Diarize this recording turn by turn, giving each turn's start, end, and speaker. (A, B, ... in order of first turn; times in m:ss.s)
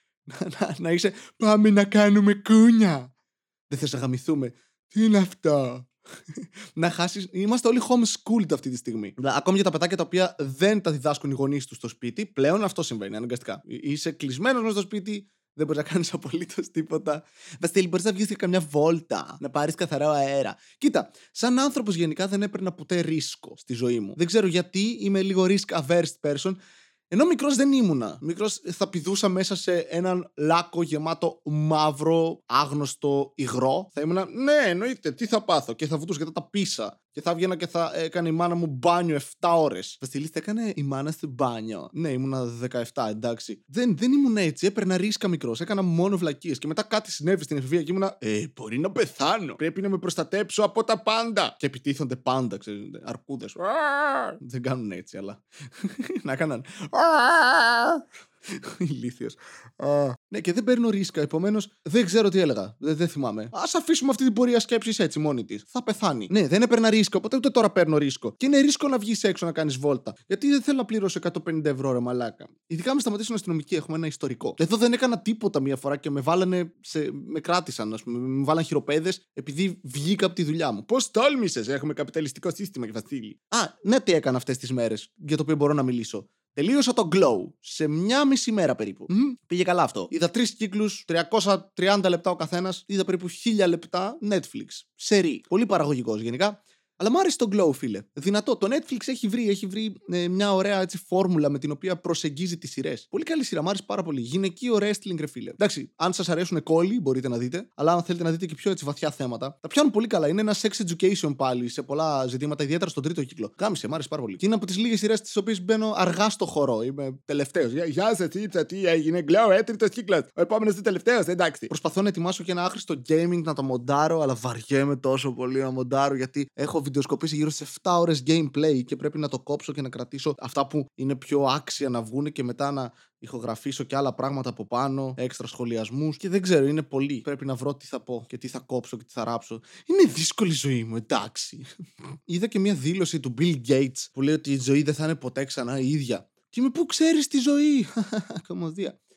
0:00.3-0:03.1 A
0:03.7-0:26.6 A
0:27.1-2:21.6 A
2:22.3-2:28.9 A